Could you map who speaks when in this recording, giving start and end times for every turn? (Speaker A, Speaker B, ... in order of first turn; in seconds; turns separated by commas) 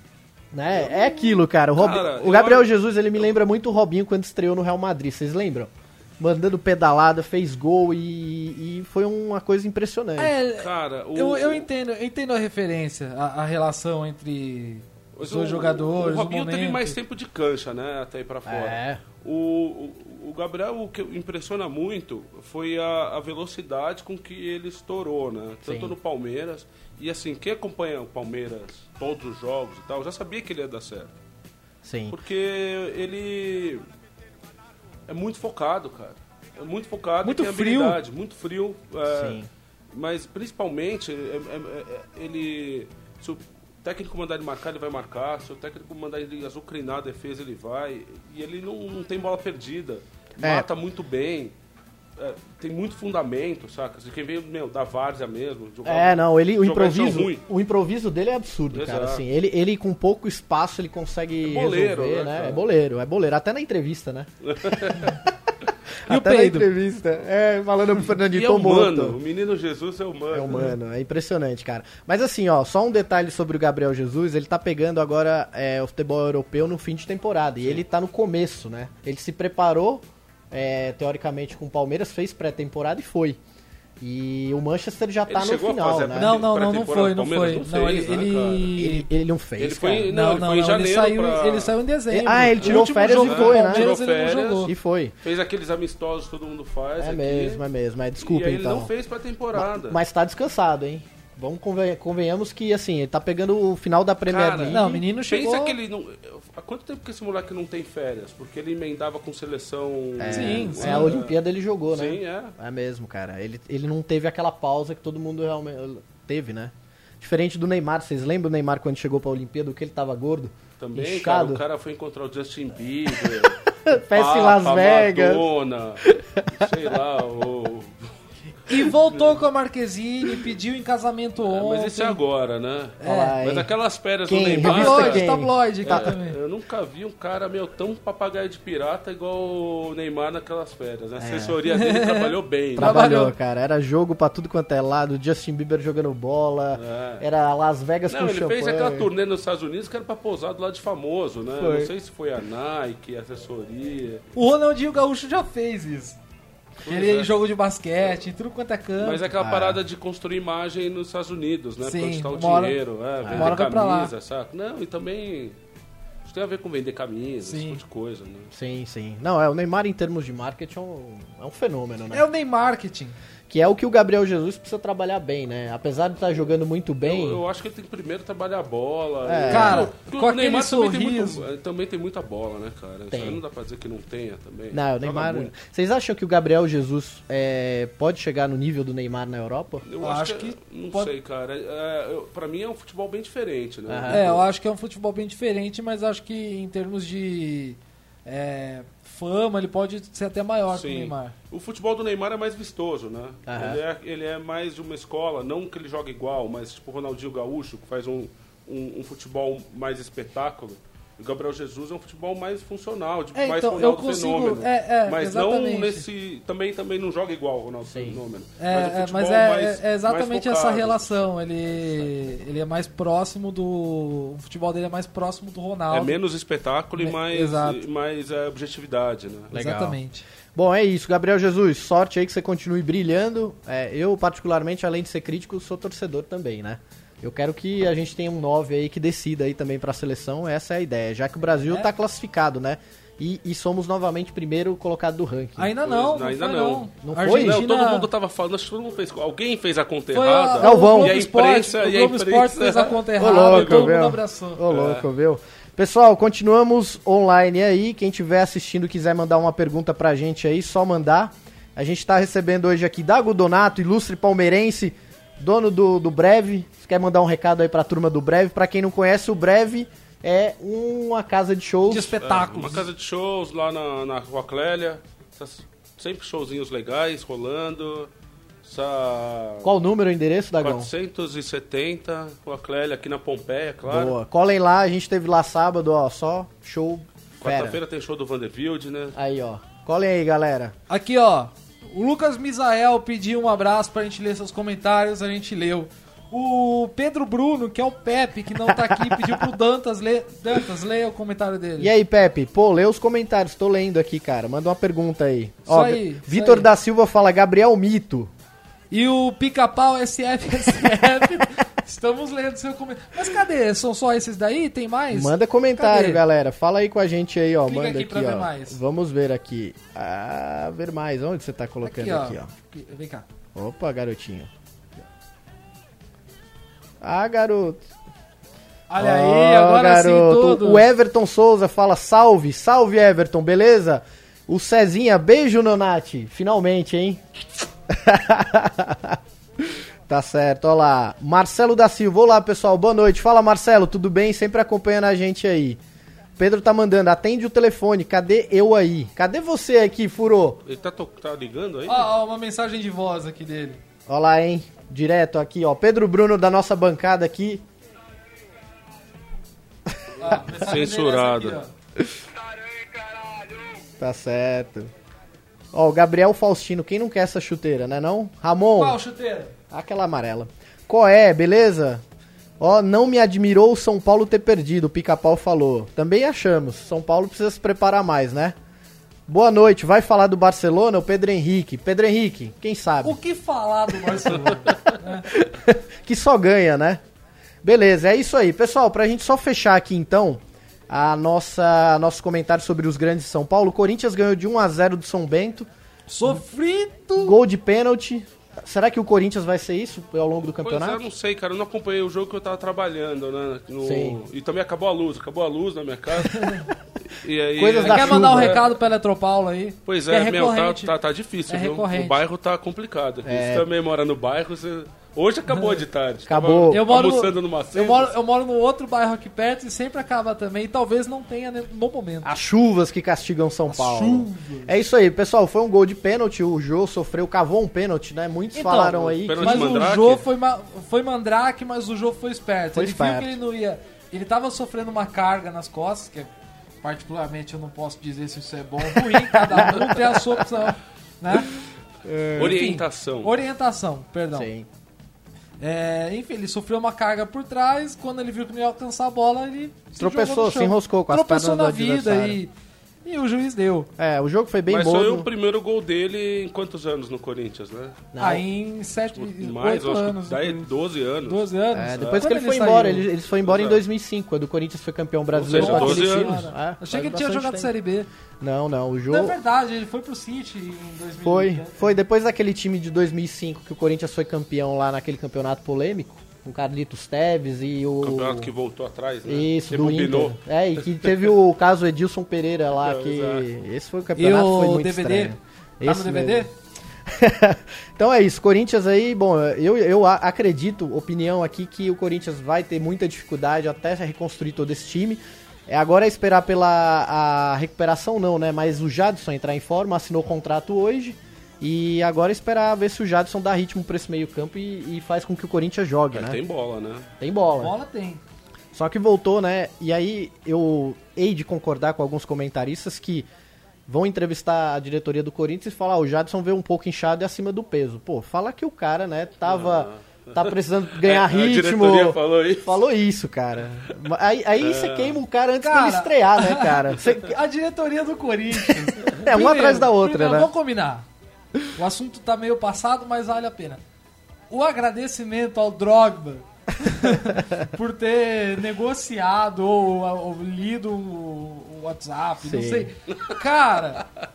Speaker A: 0.5-10.3, Speaker B: 0.7-2.7, Speaker C: 10.2-17.0, Speaker B: 10.5-11.7, Speaker B: 15.1-31.1, Speaker A: 18.4-19.0, Speaker A: 25.6-25.9, Speaker A: 31.8-32.2, Speaker B: 32.1-33.8, Speaker B: 35.1-39.4, Speaker C: 37.2-38.0, Speaker A: 39.1-39.5, Speaker B: 39.9-51.5, Speaker A: 50.4-50.7, Speaker B: 52.2-57.4, Speaker A: 55.8-65.1, Speaker B: 58.7-59.2, Speaker B: 61.4-62.6, Speaker B: 64.4-65.2, Speaker C: 66.1-66.7, Speaker A: 66.1-69.2, Speaker B: 68.3-70.7, Speaker A: 70.3-83.4, Speaker A: 84.0-86.4, Speaker B: 85.3-88.8, Speaker C: 86.1-89.1, Speaker A: 88.8-90.1, Speaker B: 89.6-91.7, Speaker C: 90.1-94.7, Speaker A: 92.1-93.9, Speaker B: 92.6-97.6, Speaker A: 94.6-95.1, Speaker A: 97.0-98.9, Speaker B: 98.2-100.0, Speaker A: 99.5-105.0, Speaker B: 104.2-112.5, Speaker C: 104.7-105.8, Speaker A: 110.2-121.6, Speaker C: 110.3-111.2, Speaker B: 120.8-128.1, Speaker A: 123.2-125.5, Speaker A: 126.0-126.7, Speaker C: 128.7-132.2, Speaker B: 128.8-129.4, Speaker B: 131.5-135.2, Speaker C: 133.0-133.4, Speaker A: 133.0-133.7, Speaker A: 134.3-136.1, Speaker C: 134.6-136.4, Speaker B: 135.8-143.1, Speaker A: 141.2-141.6, Speaker C: 141.7-143.3, Speaker A: 142.8-149.1, Speaker B: 146.7-147.2, Speaker B: 148.1-154.2, Speaker A: 151.6-151.9, Speaker C: 154.3-156.2, Speaker B: 156.8-157.3, Speaker C: 156.8-159.2, Speaker B: 159.0-165.6, Speaker A: 159.4-159.8, Speaker C: 161.8-162.8, Speaker A: 163.2-163.6, Speaker C: 163.3-164.1, Speaker B: 166.2-168.5, Speaker C: 167.4-167.8, Speaker A: 168.5-172.2, Speaker C: 172.1-173.2, Speaker A: 173.5-177.4, Speaker B: 177.0-185.5, Speaker A: 179.2-179.9, Speaker C: 179.5-181.4, Speaker A: 183.1-183.4, Speaker A: 184.7-189.8, Speaker B: 189.8-194.4, Speaker C: 190.0-191.1, Speaker A: 193.9-194.3, Speaker C: 194.1-201.3, Speaker B: 200.7-222.1, Speaker A: 203.5-203.8, Speaker C: 213.3-216.0, Speaker A: 217.8-218.2, Speaker C: 218.6-226.2, Speaker B: 225.9-229.5, Speaker C: 227.0-227.8, Speaker A: 229.5-230.0, Speaker C: 229.5-230.2, Speaker A: 230.5-245.7, Speaker C: 245.6-248.1, Speaker B: 245.8-253.9, Speaker A: 247.0-247.6, Speaker C: 250.1-254.6, Speaker A: 250.6-251.2, Speaker A: 253.2-272.2, Speaker B: 254.7-255.1, Speaker C: 271.9-272.9, Speaker B: 272.2-278.1, Speaker B: 278.6-279.7, Speaker A: 279.6-280.9, Speaker B: 280.6-284.1, Speaker A: 283.9-287.8, Speaker B: 287.4-289.1, Speaker A: 289.1-290.7, Speaker C: 290.9-301.9, Speaker A: 298.7-299.4, Speaker A: 301.8-308.3, Speaker C: 305.7-306.7, Speaker C: 308.9-316.2, Speaker A: 315.1-322.5, Speaker C: 317.6-318.8, Speaker C: 321.8-323.3, Speaker A: 323.5-324.5, Speaker A: 327.0-327.9, Speaker C: 328.9-330.9, Speaker A: 329.0-337.3, Speaker A: 337.9-345.8, Speaker A: 346.4-350.6, Speaker B: 350.6-352.1, Speaker C: 351.9-353.8, Speaker A: 354.1-357.6, Speaker C: 360.2-361.7, Speaker B: 360.5-361.6, Speaker A: 364.0-364.9, Speaker A: 365.7-369.0, Speaker C: 368.7-369.5, Speaker A: 369.7-372.0, Speaker A: 372.6-378.6, Speaker A: 379.3-383.2, Speaker C: 383.0-385.3, Speaker A: 385.3-387.0, Speaker A: 387.6-395.7, Speaker C: 396.1-397.4, Speaker A: 397.2-401.0, Speaker B: 400.6-408.7, Speaker A: 403.8-404.2, Speaker C: 406.2-406.7, Speaker A: 407.6-408.6, Speaker C: 407.8-410.9, Speaker B: 409.9-418.1, Speaker C: 411.5-412.2, Speaker A: 413.2-413.7, Speaker C: 415.5-415.8, Speaker A: 416.2-416.9, Speaker C: 416.7-422.3, Speaker A: 422.2-429.8, Speaker C: 423.7-424.7, Speaker C: 428.5-436.3, Speaker B: 429.0-430.2, Speaker A: 432.7-433.4, Speaker C: 436.8-441.6, Speaker A: 438.9-440.4, Speaker A: 442.0-442.6, Speaker B: 442.4-443.3, Speaker C: 442.4-444.5, Speaker A: 444.3-444.7, Speaker C: 445.6-452.5, Speaker A: 450.0-452.4, Speaker C: 453.0-453.9, Speaker A: 454.0-455.3, Speaker B: 454.7-458.0, Speaker A: 458.1-458.4, Speaker C: 458.2-460.7, Speaker B: 459.1-462.3, Speaker C: 461.2-463.1, Speaker A: 461.7-467.7, Speaker B: 463.3-463.8, Speaker B: 465.3-466.4, Speaker C: 465.5-468.1, Speaker A: 468.4-469.4, Speaker C: 469.1-471.9, Speaker A: 471.2-478.5, Speaker B: 478.0-480.4, Speaker A: 479.2-486.5, Speaker B: 482.8-483.5, Speaker C: 484.1-486.5, Speaker A: 487.1-506.4, Speaker B: 506.1-507.1, Speaker A: 507.2-507.7, Speaker C: 507.6-508.2, Speaker A: 508.7-513.3, Speaker A: 513.9-527.4, Speaker B: 519.4-522.8, Speaker B: 524.6-525.2, Speaker C: 525.6-531.0, Speaker A: 528.6-530.5, Speaker C: 531.7-533.8, Speaker C: 534.5-544.0, Speaker A: 537.2-537.7, Speaker A: 542.4-542.9, Speaker B: 543.1-543.4